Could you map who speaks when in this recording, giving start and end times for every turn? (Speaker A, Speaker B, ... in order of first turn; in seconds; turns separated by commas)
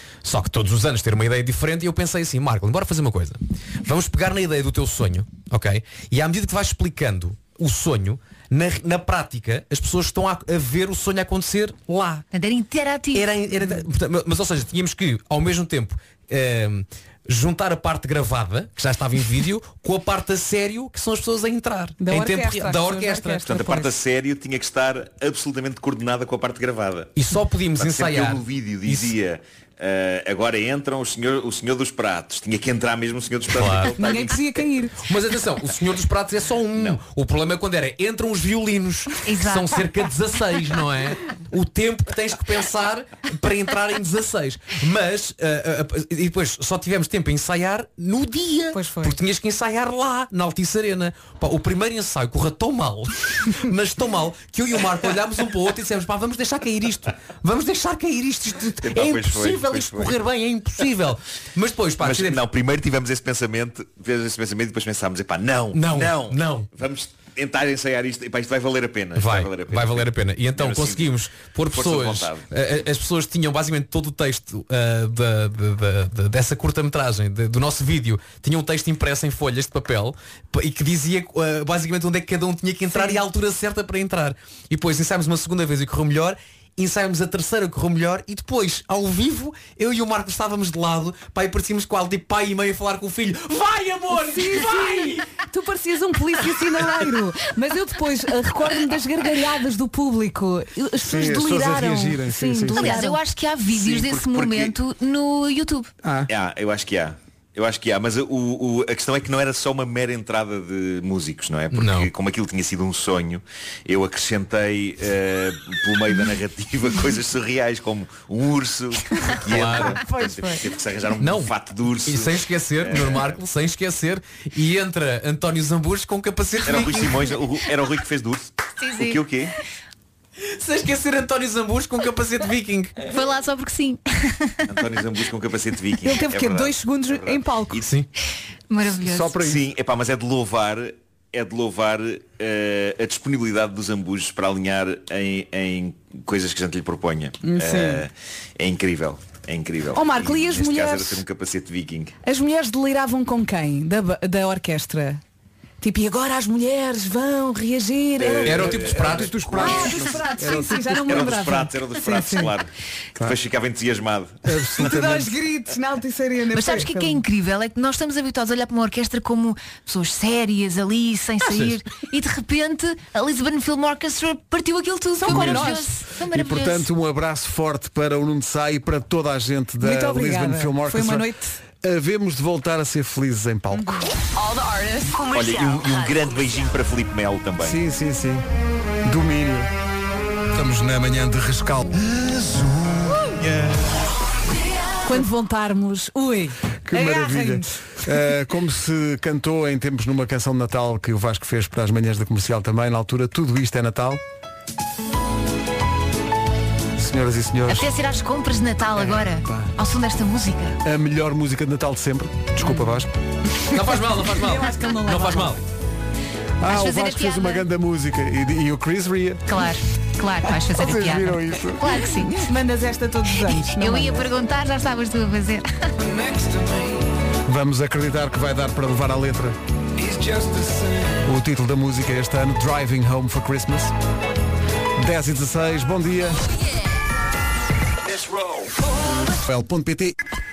Speaker A: 0.2-12.2, Speaker B: 12.3-13.3, Speaker A: 13.1-23.9, Speaker C: 22.0-23.6, Speaker D: 23.5-27.1, Speaker A: 27.1-29.1, Speaker D: 27.7-34.5, Speaker A: 33.5-34.0, Speaker C: 33.9-34.9, Speaker A: 35.0-62.4, Speaker D: 36.7-37.0, Speaker B: 39.2-39.8, Speaker C: 48.7-49.2, Speaker D: 58.8-60.2, Speaker D: 62.0-72.4, Speaker A: 65.7-66.7, Speaker A: 69.1-95.3, Speaker C: 82.9-83.2, Speaker C: 94.3-103.2, Speaker E: 101.0-103.0, Speaker B: 102.7-105.9, Speaker D: 103.6-104.7, Speaker E: 106.0-106.3, Speaker D: 106.3-123.4, Speaker A: 111.7-112.1, Speaker A: 119.5-120.0, Speaker C: 119.9-120.7, Speaker A: 121.2-121.5, Speaker A: 122.0-127.3, Speaker D: 126.6-129.5, Speaker B: 128.8-129.2, Speaker A: 130.5-133.0, Speaker B: 133.0-134.7, Speaker D: 134.7-137.9, Speaker C: 136.0-137.9, Speaker A: 137.8-138.1, Speaker B: 138.7-139.4, Speaker E: 139.0-139.6, Speaker D: 139.3-152.1, Speaker C: 147.4-148.1, Speaker C: 149.9-151.2, Speaker C: 152.2-155.2, Speaker C: 155.8-158.7, Speaker D: 158.2-159.1, Speaker A: 158.4-159.9, Speaker E: 158.4-161.4, Speaker C: 159.6-162.6, Speaker D: 160.9-164.4, Speaker E: 164.4-165.3, Speaker C: 164.7-167.2, Speaker B: 166.5-176.8, Speaker A: 171.4-171.8, Speaker C: 175.2-175.9, Speaker E: 175.3-181.3, Speaker C: 179.8-181.6, Speaker E: 181.8-184.1, Speaker F: 184.3-186.7, Speaker D: 185.3-187.8, Speaker E: 187.6-188.4, Speaker E: 189.0-189.7, Speaker E: 190.5-192.0, Speaker D: 192.1-194.0, Speaker C: 195.0-197.7, Speaker E: 196.8-204.2, Speaker E: 206.9-207.9, Speaker B: 207.7-210.8, Speaker E: 209.4-209.7, Speaker E: 210.8-213.1, Speaker A: 213.7-215.6, Speaker C: 213.7-215.6, Speaker E: 216.6-219.6, Speaker B: 216.7-217.7, Speaker B: 219.5-222.5, Speaker E: 220.7-221.9, Speaker C: 222.2-224.3, Speaker B: 223.4-225.7, Speaker E: 227.4-229.6, Speaker E: 231.2-233.9, Speaker E: 235.0-236.4, Speaker E: 239.3-240.2